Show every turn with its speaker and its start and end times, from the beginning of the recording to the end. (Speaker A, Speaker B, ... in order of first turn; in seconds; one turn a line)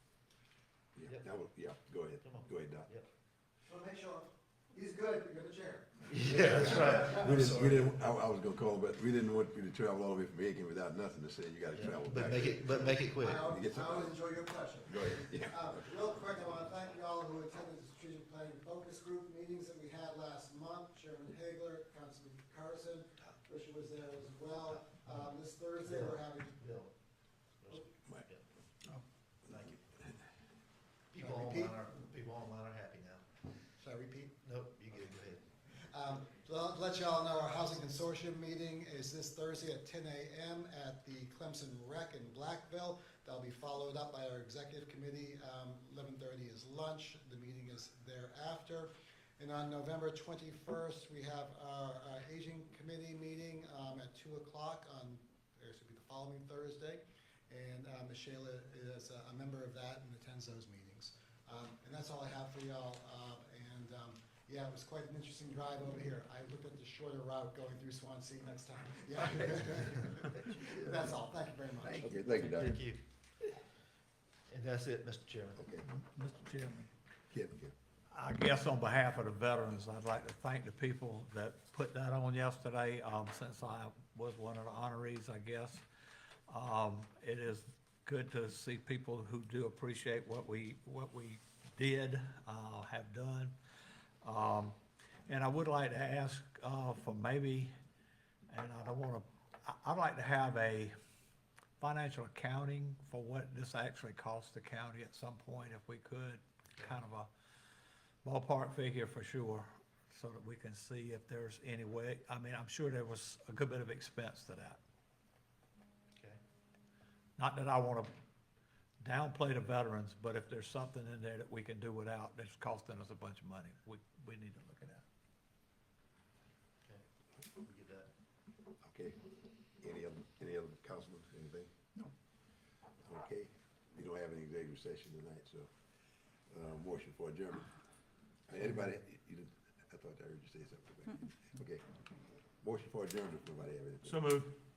Speaker A: 1.0-2.9
Speaker B: 2.2-3.1
Speaker C: 3.6-7.3
Speaker B: 6.0-8.0
Speaker A: 6.5-14.1
Speaker B: 11.7-13.5
Speaker C: 13.1-26.6
Speaker A: 14.9-15.7
Speaker B: 25.8-26.9
Speaker B: 27.6-28.5
Speaker B: 29.4-29.9
Speaker B: 31.1-33.4
Speaker C: 31.2-31.8
Speaker C: 33.8-34.4
Speaker B: 34.4-35.5
Speaker C: 35.9-72.1
Speaker B: 70.2-70.7
Speaker A: 71.8-72.8
Speaker B: 71.8-73.5
Speaker B: 74.5-75.7
Speaker A: 75.6-75.8
Speaker D: 75.8-76.9
Speaker A: 77.3-77.7
Speaker D: 78.1-85.8
Speaker D: 86.5-93.6
Speaker D: 94.2-94.8
Speaker D: 95.3-97.7
Speaker D: 98.5-100.9
Speaker D: 101.8-107.3
Speaker D: 108.2-114.8
Speaker B: 116.2-116.4
Speaker D: 117.4-118.1
Speaker D: 119.0-125.0
Speaker B: 126.8-128.1
Speaker A: 128.8-129.2
Speaker A: 129.8-131.7
Speaker A: 133.0-135.7
Speaker A: 136.5-137.7
Speaker A: 138.5-141.8
Speaker A: 142.6-144.4